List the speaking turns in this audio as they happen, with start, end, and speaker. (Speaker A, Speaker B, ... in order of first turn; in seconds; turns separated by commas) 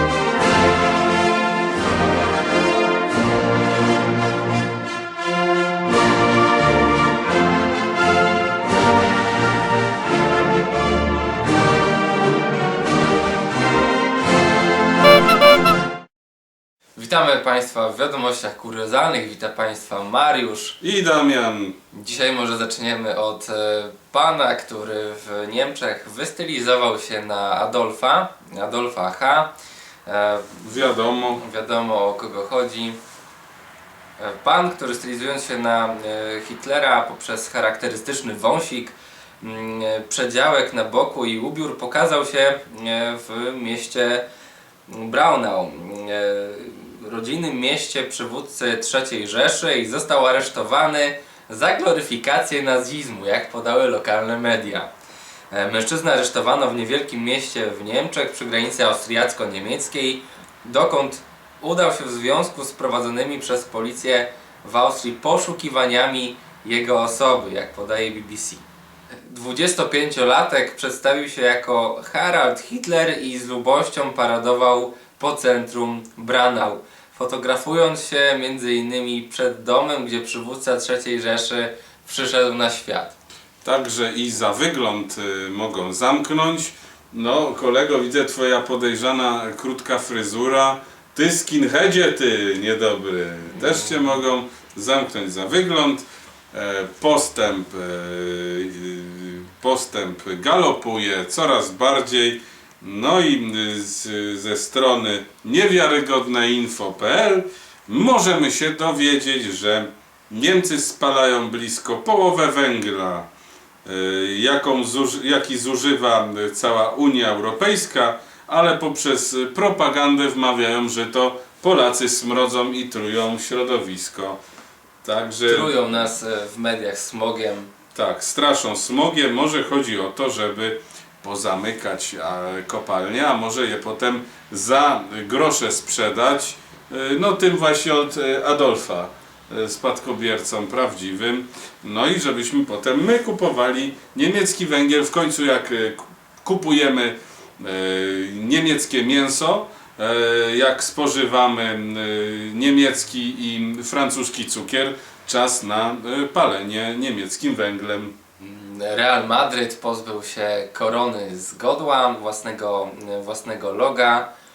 Speaker A: 16.9-20.8, Speaker B: 20.8-21.8, Speaker A: 21.9-29.5, Speaker A: 30.1-30.6, Speaker B: 30.6-31.4, Speaker A: 31.3-33.0, Speaker A: 34.2-44.2, Speaker A: 44.9-54.9, Speaker A: 55.5-68.6, Speaker A: 69.2-83.2, Speaker B: 83.6-113.3, Speaker B: 113.8-124.4, Speaker B: 125.0-125.7, Speaker A: 125.4-127.7, Speaker B: 127.9-158.2, Speaker A: 158.4-164.3